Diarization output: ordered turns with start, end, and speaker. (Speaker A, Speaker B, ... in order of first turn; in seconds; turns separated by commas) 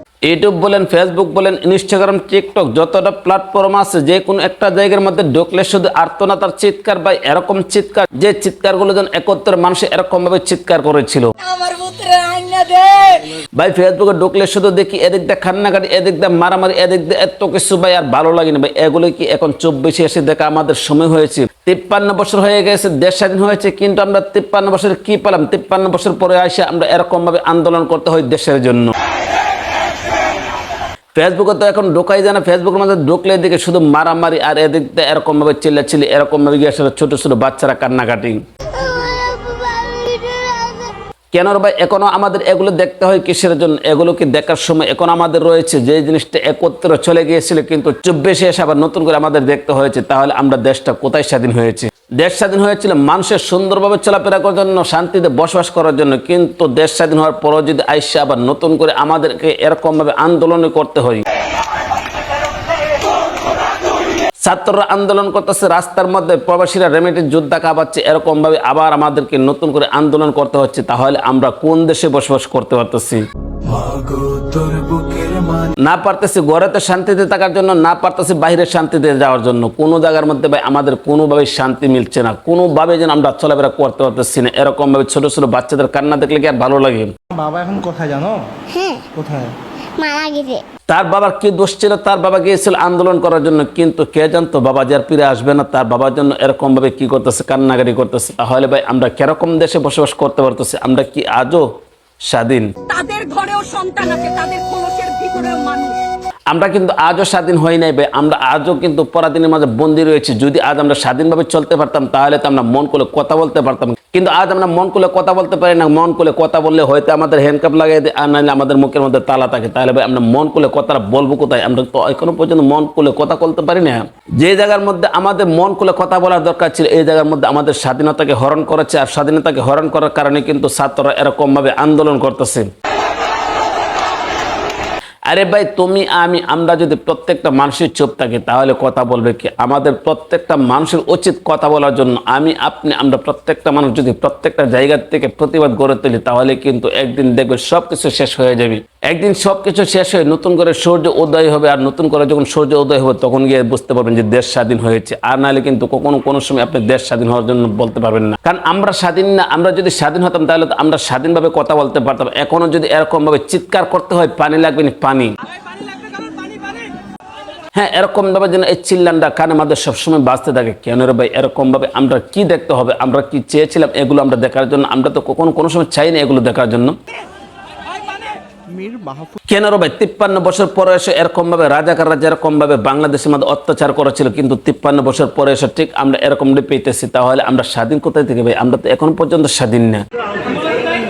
Speaker A: 0.3-11.3, Speaker B: 11.4-13.4, Speaker A: 13.6-28.9, Speaker A: 31.1-38.4, Speaker C: 38.8-41.0, Speaker A: 41.3-61.2, Speaker A: 64.4-73.2, Speaker D: 73.7-75.7, Speaker A: 75.8-87.1, Speaker E: 87.3-88.5, Speaker C: 88.7-89.0, Speaker E: 89.2-89.5, Speaker C: 90.0-90.6, Speaker A: 90.9-101.7, Speaker A: 102.3-102.7, Speaker B: 102.9-106.0, Speaker A: 106.5-132.7, Speaker A: 135.3-165.3, Speaker A: 167.7-177.0, Speaker E: 178.7-179.3, Speaker A: 179.5-190.0